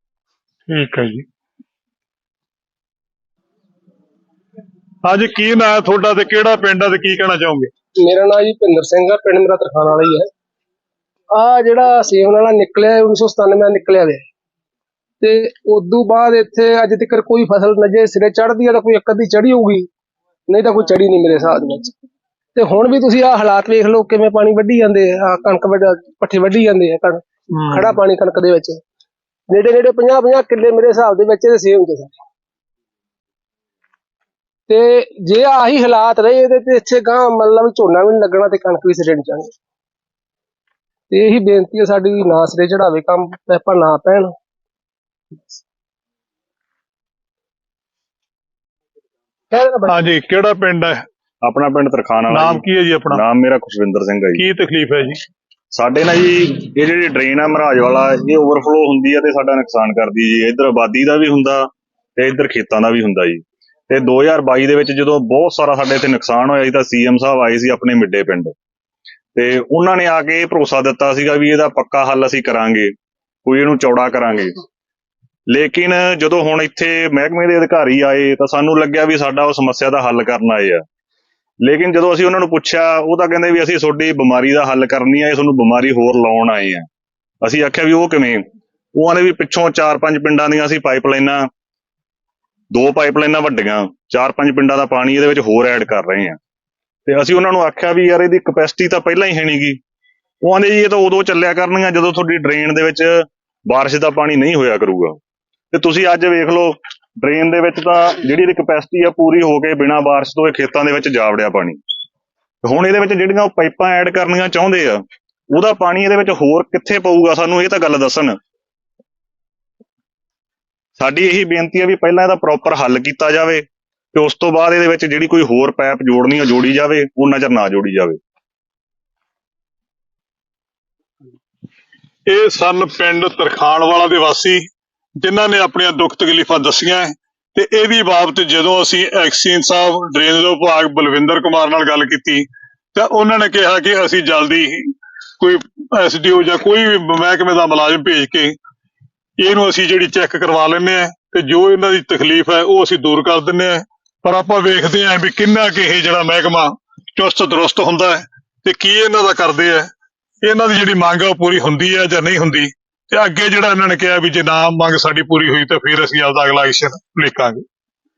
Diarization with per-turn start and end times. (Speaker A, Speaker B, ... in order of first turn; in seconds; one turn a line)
Speaker A: 0.7-1.2
Speaker A: 5.0-7.7
Speaker B: 8.1-10.3
Speaker B: 11.3-14.2
Speaker B: 15.2-19.9
Speaker B: 20.5-21.9
Speaker B: 22.6-28.8
Speaker A: 27.6-28.0
Speaker B: 29.5-32.1
Speaker B: 34.7-39.5
Speaker B: 41.1-44.3
Speaker B: 49.5-49.9
Speaker A: 49.9-51.0
Speaker C: 51.4-54.5
Speaker A: 52.3-53.2
Speaker A: 54.4-55.2
Speaker C: 55.7-61.7
Speaker C: 62.2-68.5
Speaker C: 69.4-72.9
Speaker C: 73.5-74.6
Speaker C: 75.5-80.8
Speaker C: 81.6-86.9
Speaker C: 87.4-88.5
Speaker C: 89.0-91.5
Speaker C: 92.7-96.4
Speaker C: 97.1-99.8
Speaker C: 100.4-105.2
Speaker C: 105.7-111.8
Speaker C: 112.7-115.0
Speaker C: 115.5-118.4
Speaker C: 121.0-128.2
Speaker A: 132.3-134.7
Speaker A: 135.2-148.6
Speaker A: 149.4-159.9
Speaker A: 160.4-167.7